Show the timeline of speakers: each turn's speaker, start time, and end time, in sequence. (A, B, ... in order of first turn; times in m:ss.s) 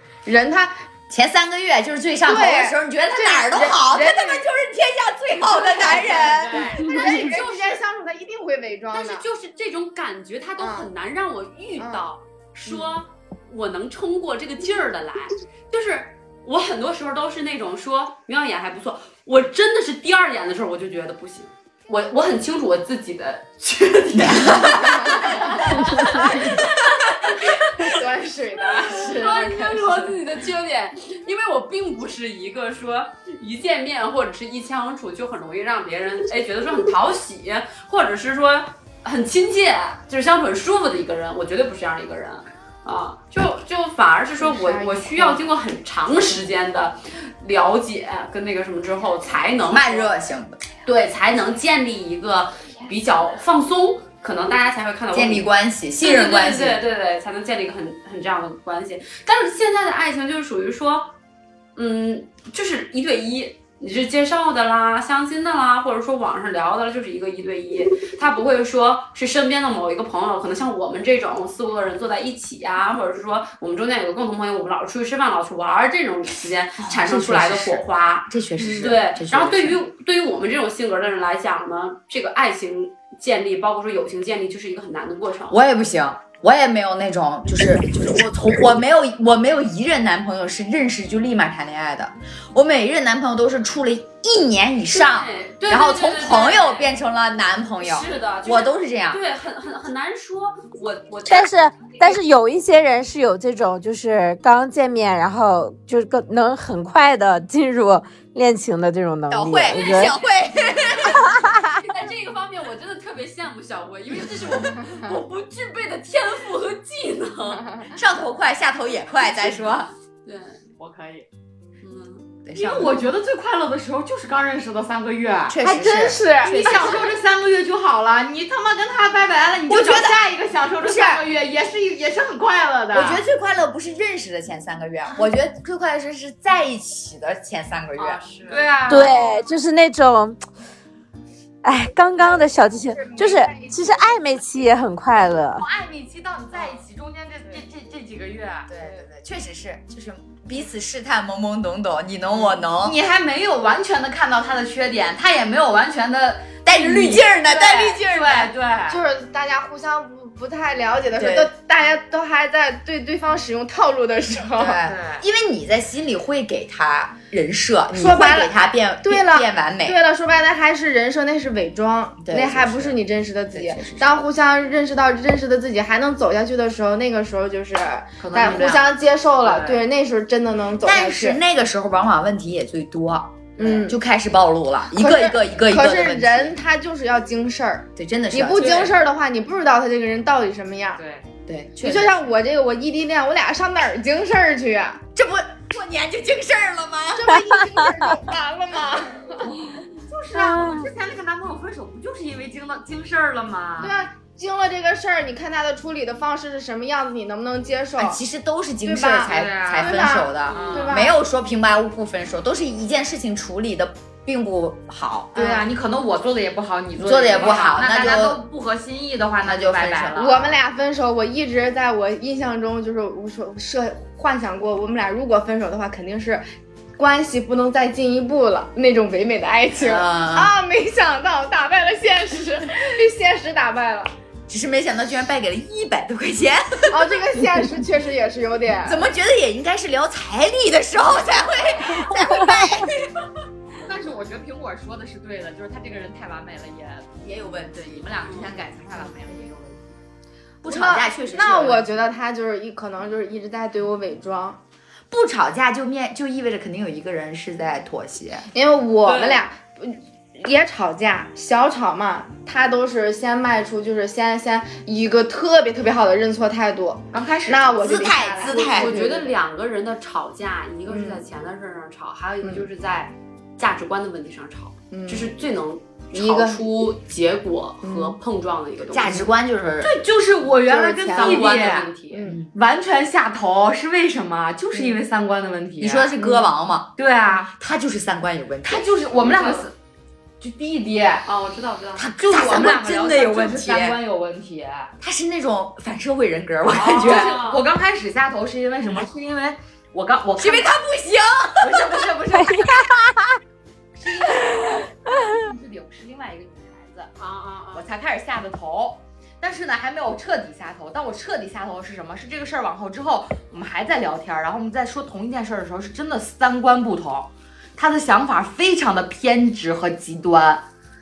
0:00.2-0:00.8 A
0:01.1-0:07.4 B
0:02.2-0:04.4 A
0:05.8-0:09.2 A
0:05.8-0:06.8 C
0:06.8-0:07.7 D
0:08.9-0:27.9 D
0:10.6-0:10.9 A
0:11.8-0:12.0 A
0:24.1-0:24.8 B
0:24.8-0:25.4 A
0:27.8-0:30.2 A
0:28.8-0:50.1 D
0:44.4-0:45.5 A
0:49.6-0:50.6 B
0:50.8-0:55.5 D
0:55.1-0:56.8 B
0:56.0-1:01.1 D
1:01.8-1:25.6 D
1:16.8-1:19.8 B
1:25.5-1:39.2 B
1:34.9-1:36.9 D
1:37.8-1:42.2 D
1:41.2-1:50.1 E
1:49.3-1:51.4 B
1:49.7-1:57.9 D
1:51.2-1:51.8 E
1:57.9-1:59.9 B
2:00.2-2:00.8 D
2:00.8-2:01.3 C
2:01.8-2:02.3 D
2:02.4-2:03.0 B
2:02.5-2:05.6 C
2:05.5-2:07.0 B
2:05.6-2:06.6 A
2:06.4-2:13.2 C
2:06.6-2:07.1 D
2:09.7-2:11.2 B
2:12.9-2:18.2 B
2:18.0-2:18.7 D
2:18.5-2:19.1 C
2:18.9-2:20.4 E
2:21.6-2:25.6 E
2:23.1-2:23.9 C
2:25.6-2:28.8 C
2:26.5-2:26.8 A
2:28.7-2:33.0 B
2:32.3-2:39.0 C
2:36.6-2:38.5 B
2:38.9-2:44.8 A
2:41.2-2:41.5 B
2:44.5-2:50.0 B
2:44.8-2:45.2 C
2:47.9-3:01.4 A
2:52.2-2:54.2 B
2:58.2-2:59.8 C
2:58.4-2:58.8 B
3:00.8-3:06.6 B
3:03.6-3:04.0 A
3:04.9-3:11.0 A
3:08.0-3:08.9 B
3:08.6-3:08.9 C
3:11.0-3:11.3 C
3:11.5-3:12.2 B
3:11.8-3:15.0 A
3:15.1-3:17.4 B
3:17.1-3:19.6 A
3:20.0-3:24.0 C
3:20.3-3:20.9 E
3:23.8-3:28.2 A
3:28.0-3:35.3 B
3:28.8-3:31.2 A
3:29.3-3:30.9 C
3:30.5-3:31.0 D
3:35.3-3:40.6 C
3:35.3-3:35.6 A
3:37.0-3:38.4 B
3:37.4-3:37.8 D
3:39.4-3:40.2 B
3:40.2-3:46.4 A
3:47.0-3:54.1 A
3:49.8-3:50.5 B
3:54.5-3:57.2 B
3:56.9-3:59.0 A
3:58.8-4:03.1 B
4:03.8-4:09.9 C
4:07.2-4:08.2 B
4:10.6-4:11.9 B
4:10.6-4:14.6 A
4:15.1-4:18.5 B
4:18.5-4:29.3 A
4:19.0-4:19.4 D
4:27.1-4:28.1 C
4:27.8-4:28.9 B
4:28.5-4:39.2 D
4:30.9-4:31.2 A
4:32.4-4:32.7 A
4:34.9-4:35.3 A
4:36.1-4:36.6 A
4:37.8-4:38.2 A
4:38.8-4:39.9 B
4:39.8-4:41.9 C
4:40.6-4:41.6 A
4:41.1-4:42.2 D
4:42.1-4:42.4 A
4:42.5-4:46.1 C
4:44.7-4:45.0 A
4:45.8-4:47.0 B
4:46.2-4:46.5 A
4:47.0-4:47.5 C
4:47.5-4:48.9 B
4:48.6-4:49.7 C
4:49.1-4:49.7 D
4:50.4-4:51.2 C
4:51.2-4:52.1 D
4:52.0-4:54.0 B
4:52.2-4:54.9 C
4:55.0-4:57.4 B
4:56.6-5:00.7 C
4:57.0-4:57.6 D
5:00.4-5:02.1 B
5:01.6-5:02.9 C
5:02.3-5:03.4 E
5:03.9-5:07.1 C
5:04.6-5:05.4 E
5:07.2-5:07.9 D
5:07.7-5:20.6 C